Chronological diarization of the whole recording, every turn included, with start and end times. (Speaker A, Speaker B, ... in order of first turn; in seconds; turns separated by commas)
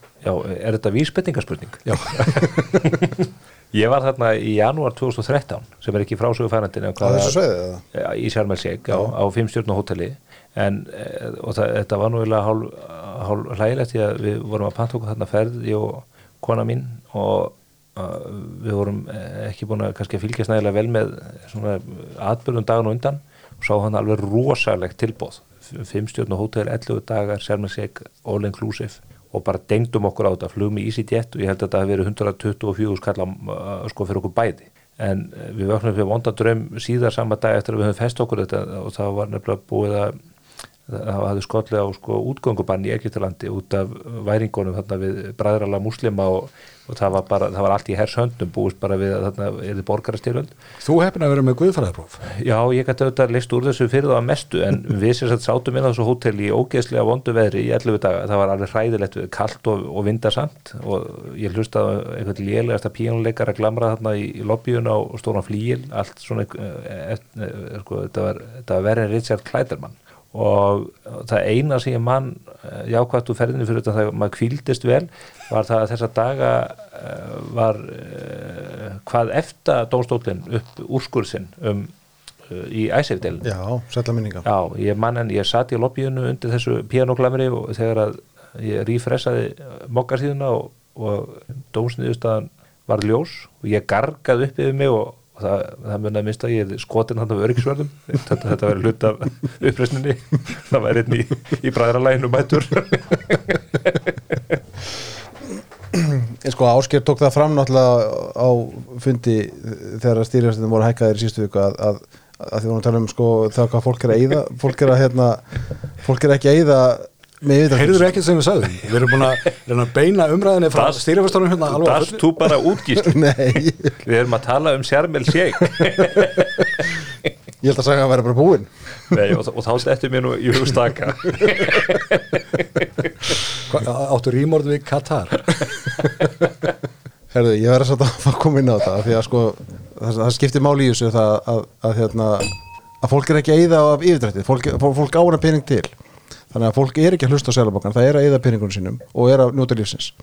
Speaker A: 0.2-7.4, Speaker B: 1.9-2.5, Speaker C: 7.0-7.8, Speaker A: 7.9-40.1, Speaker A: 40.9-50.5, Speaker B: 50.8-52.2, Speaker A: 52.2-81.9, Speaker A: 82.5-83.5, Speaker C: 83.4-84.5, Speaker A: 84.4-104.6, Speaker C: 105.9-118.1, Speaker B: 117.7-122.2, Speaker A: 120.7-123.2, Speaker C: 122.9-124.0, Speaker A: 124.0-127.3, Speaker C: 127.6-128.7, Speaker A: 129.0-133.3, Speaker B: 133.6-135.6, Speaker C: 136.0-136.3, Speaker C: 137.3-145.9, Speaker C: 146.5-150.1